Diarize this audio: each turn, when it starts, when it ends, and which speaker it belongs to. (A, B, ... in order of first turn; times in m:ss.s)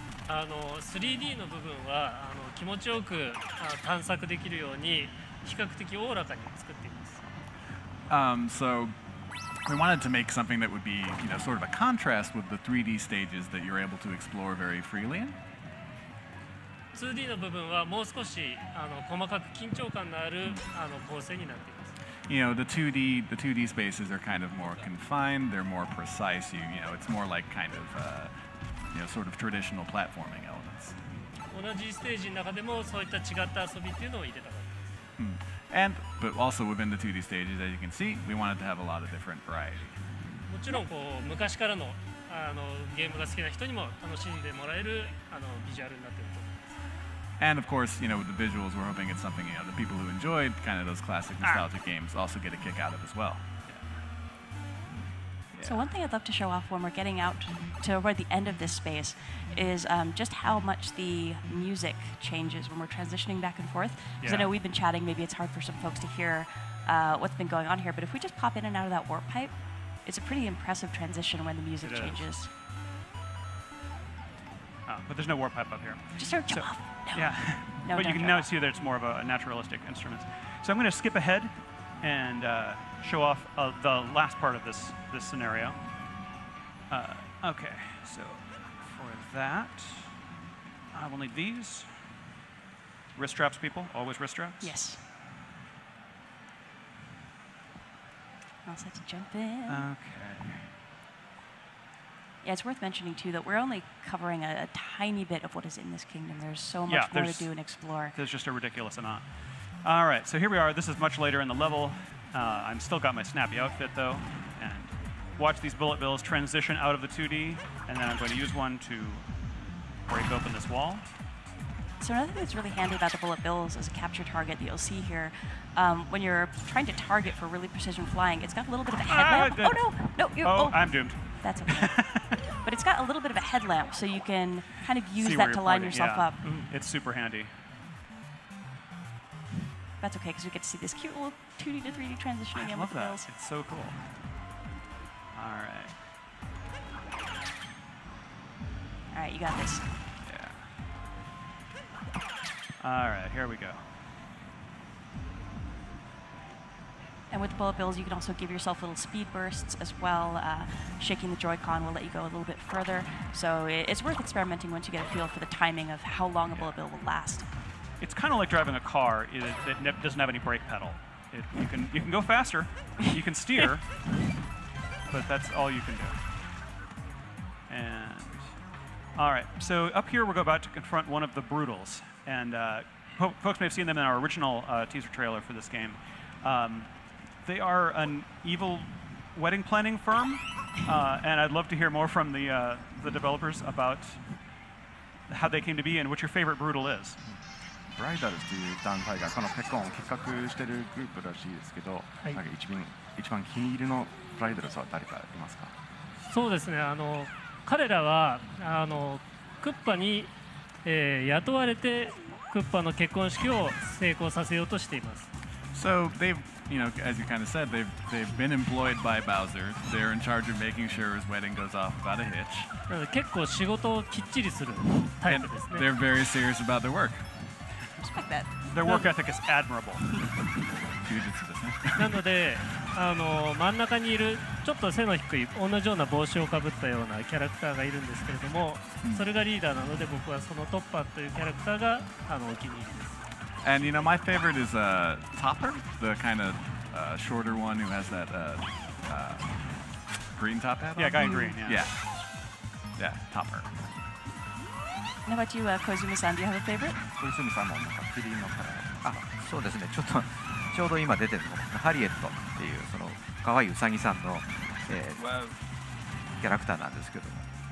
0:00.3-0:07.2 A
0:08.1-0:08.9 B
0:09.6-0:15.4 B
0:16.9-0:21.9 A
0:20.4-0:20.7 B
0:22.3-0:31.0 B
0:31.5-0:34.8 A
0:35.2-0:40.3 B
0:40.4-0:46.8 A
0:47.4-0:53.4 B
0:53.6-0:53.9 C
0:55.5-0:55.9 C
0:55.6-1:12.5 D
1:04.2-1:04.5 C
1:11.8-1:12.3 C
1:14.8-1:26.0 C
1:16.2-1:18.5 D
1:26.9-1:30.3 C
1:30.9-1:32.2 C
1:33.1-1:34.8 C
1:34.6-1:35.0 D
1:38.6-1:39.8 D
1:39.7-1:40.7 C
1:42.4-1:48.2 D
1:46.9-2:01.0 C
2:02.0-2:16.7 D
2:09.0-2:12.3 C
2:15.2-2:17.6 C
2:20.0-2:23.3 D
2:22.5-2:24.2 C
2:25.3-2:26.0 C
2:29.1-2:30.0 D
2:30.2-2:30.7 C
2:32.8-2:33.9 C
2:37.3-2:47.5 D
2:48.0-2:54.2 C
2:55.1-2:56.3 C
2:57.7-3:14.7 C
3:15.3-3:17.2 C
3:17.3-3:25.7 E
3:26.2-3:35.3 A
3:35.7-3:42.7 B
3:42.9-3:45.9 A
3:45.1-3:47.6 B
3:48.0-3:49.1 D
3:48.6-3:50.1 C
3:51.0-3:52.2 B
3:52.0-4:03.2 A
3:59.0-3:59.3 B
4:03.6-4:13.9 B
4:11.0-4:11.9 C
4:11.2-4:11.6 D
4:15.2-4:17.0 D
4:17.1-4:19.3 E
4:19.0-4:25.5 F
4:25.2-4:25.6 C
4:26.3-4:27.5 F